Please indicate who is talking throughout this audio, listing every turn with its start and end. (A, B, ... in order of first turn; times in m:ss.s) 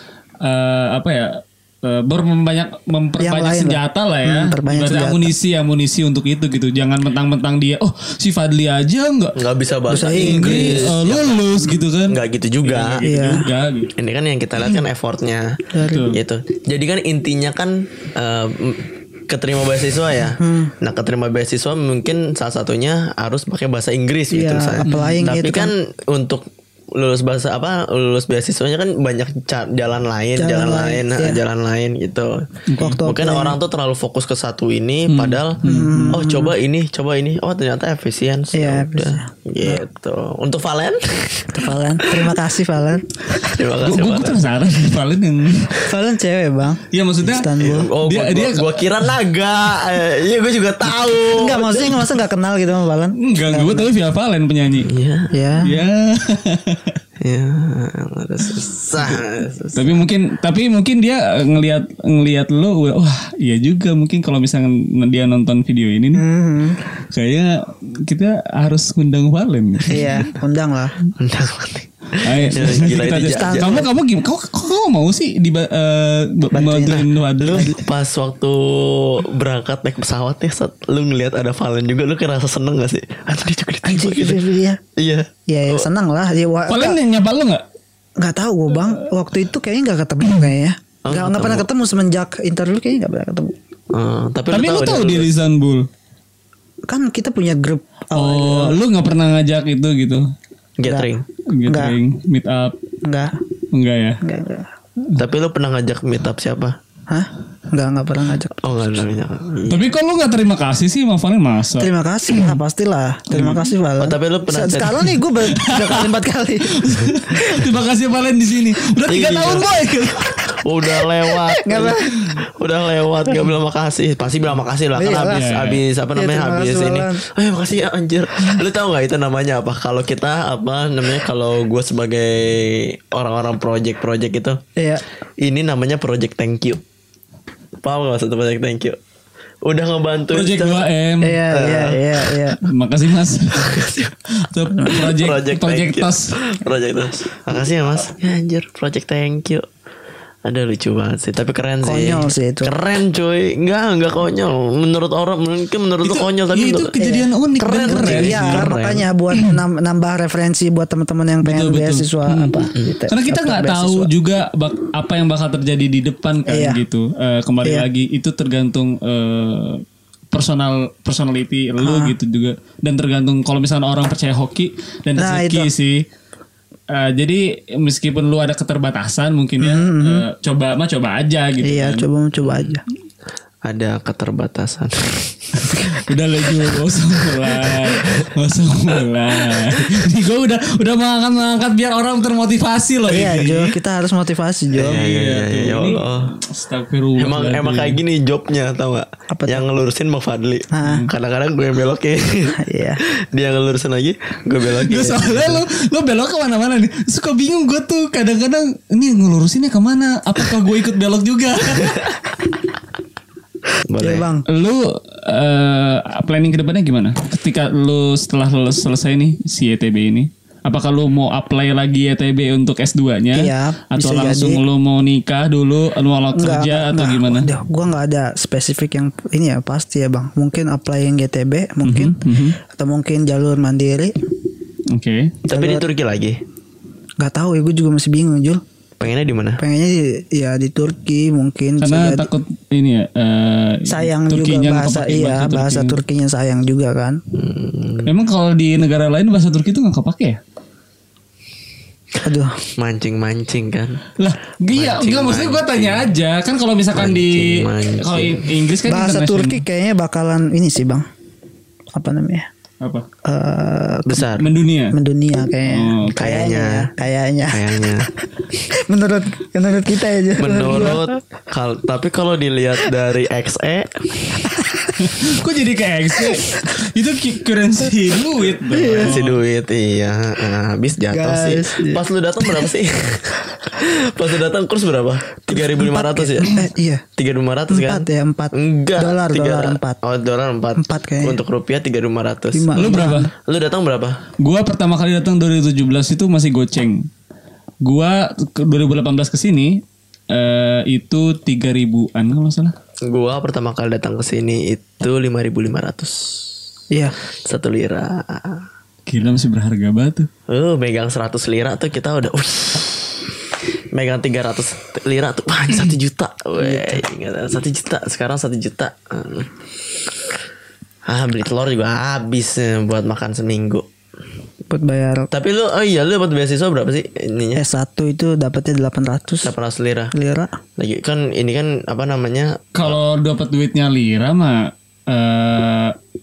0:00.4-0:09.4 A
0:03.2-0:05.3 B
0:09.4-0:11.4 C
0:09.9-0:10.9 B
0:10.1-0:13.9 A
0:12.1-0:13.1 C
0:13.0-0:13.4 B
0:14.0-0:32.5 C
0:15.7-0:16.1 B
0:15.9-0:16.2 A
0:20.4-0:20.7 B
0:24.3-0:25.7 B
0:24.9-0:25.2 A
0:30.4-0:31.4 B
0:32.7-0:33.0 A
0:32.8-0:33.6 B
0:33.0-0:35.6 C
0:35.1-0:36.2 A
0:35.6-0:36.5 B
0:36.1-0:42.4 C
0:38.5-0:39.8 B
0:41.5-0:43.2 B
0:43.4-0:44.5 C
0:43.7-0:45.8 A
0:45.8-0:47.9 B
0:46.9-0:48.9 A
0:47.6-0:52.1 C
0:51.4-0:53.9 B
0:53.2-0:54.9 A
0:54.8-0:55.3 C
0:55.3-0:55.7 B
0:55.6-0:57.0 A
0:57.2-1:00.0 C
0:59.8-1:06.2 A
1:06.2-1:06.8 B
1:06.9-1:10.1 A
1:09.9-1:10.9 B
1:10.0-1:10.3 C
1:11.2-1:13.9 C
1:12.2-1:17.8 A
1:12.3-1:12.6 B
1:13.3-1:13.9 B
1:16.5-1:17.7 B
1:16.9-1:24.4 C
1:23.8-1:24.8 B
1:25.0-1:25.9 C
1:25.5-1:27.0 B
1:26.7-1:27.6 A
1:28.2-1:33.6 B
1:31.0-1:31.7 C
1:33.9-1:35.3 C
1:34.5-1:35.9 A
1:36.9-1:38.8 B
1:38.2-1:40.3 A
1:40.8-1:41.3 C
1:41.5-1:42.8 A
1:41.7-1:42.0 B
1:43.0-1:43.4 B
1:43.7-1:44.2 A
1:44.2-1:44.7 B
1:45.2-1:46.8 C
1:47.1-1:48.6 B
1:48.6-1:49.9 C
1:49.7-1:52.6 A
1:51.8-1:56.8 B
1:53.3-1:53.6 A
1:54.0-1:55.1 C
1:55.5-1:56.1 A
1:56.7-2:00.6 A
1:59.1-2:14.6 C
2:01.6-2:02.1 B
2:02.1-2:02.4 A
2:05.0-2:05.5 B
2:05.3-2:05.8 A
2:06.2-2:07.2 B
2:14.8-2:15.0 B
2:15.4-2:16.8 C
2:17.8-2:19.0 C
2:19.6-2:20.9 C
2:20.3-2:21.4 A
2:21.2-2:22.6 B
2:21.5-2:22.4 C
2:22.6-2:26.3 A
2:23.5-2:24.1 C
2:24.8-2:29.7 C
2:30.4-2:36.9 C
2:31.8-2:32.7 B
2:36.0-2:38.7 A
2:37.0-2:37.3 B
2:37.6-2:39.1 C
2:37.8-2:44.1 B
2:41.4-2:56.0 A
2:46.5-2:46.8 B
2:51.8-2:52.1 B
2:55.2-2:55.7 B
2:56.9-3:02.0 A
2:59.6-3:00.3 B
3:01.6-3:02.8 B
3:02.4-3:02.8 C
3:03.6-3:06.0 C
3:05.6-3:13.8 A
3:06.5-3:08.3 C
3:08.9-3:10.0 C
3:13.1-3:15.0 B
3:14.7-3:16.3 C
3:14.8-3:18.0 A
3:17.2-3:25.6 C
3:19.3-3:19.6 B
3:20.7-3:21.1 B
3:22.5-3:23.0 B
3:24.7-3:32.0 A
3:33.9-3:34.2 C
3:34.0-3:34.4 B
3:34.5-3:47.5 A
3:43.4-3:44.6 B
3:46.4-3:54.1 B
3:51.8-3:52.6 A
3:54.9-3:55.3 A
3:55.5-3:55.9 B
3:55.5-3:56.4 C
3:57.2-3:58.6 B
3:59.0-3:59.6 C
3:59.6-4:02.3 B
4:01.8-4:06.0 A
4:03.9-4:07.2 B
4:07.3-4:08.1 C
4:08.1-4:10.4 A
4:12.2-4:12.5 B
4:12.8-4:14.0 C
4:14.2-4:19.6 A
4:14.7-4:16.1 C
4:16.9-4:18.5 C
4:18.9-4:21.1 B
4:21.9-4:22.5 B
4:22.8-4:23.1 A
4:23.2-4:24.3 B
4:24.1-4:24.5 C
4:24.4-4:25.0 A
4:24.9-4:27.9 B
4:25.7-4:26.2 A
4:26.2-4:26.9 C
4:27.5-4:28.1 C
4:28.4-4:31.0 B
4:30.4-4:34.5 C
4:35.0-4:39.4 A
4:38.7-4:39.2 B
4:39.0-4:46.6 C
4:41.1-4:42.0 B
4:45.5-4:47.0 B
4:47.2-4:54.2 C
4:47.7-4:50.0 B
4:50.8-4:51.4 B
4:52.5-4:53.3 B
4:52.8-4:53.3 A
4:54.4-4:57.1 A
4:57.8-5:02.7 A
5:03.0-5:06.5 C
5:07.5-5:08.6 C
5:09.1-5:10.3 A
5:10.5-5:13.4 C
5:13.9-5:20.4 C
5:16.6-5:17.0 B
5:21.1-5:23.9 C
5:24.7-5:25.3 B
5:25.3-5:27.6 C
5:27.6-5:29.5 B
5:29.4-5:30.1 C
5:30.1-5:30.6 B
5:30.8-5:33.0 C
5:32.8-5:36.0 A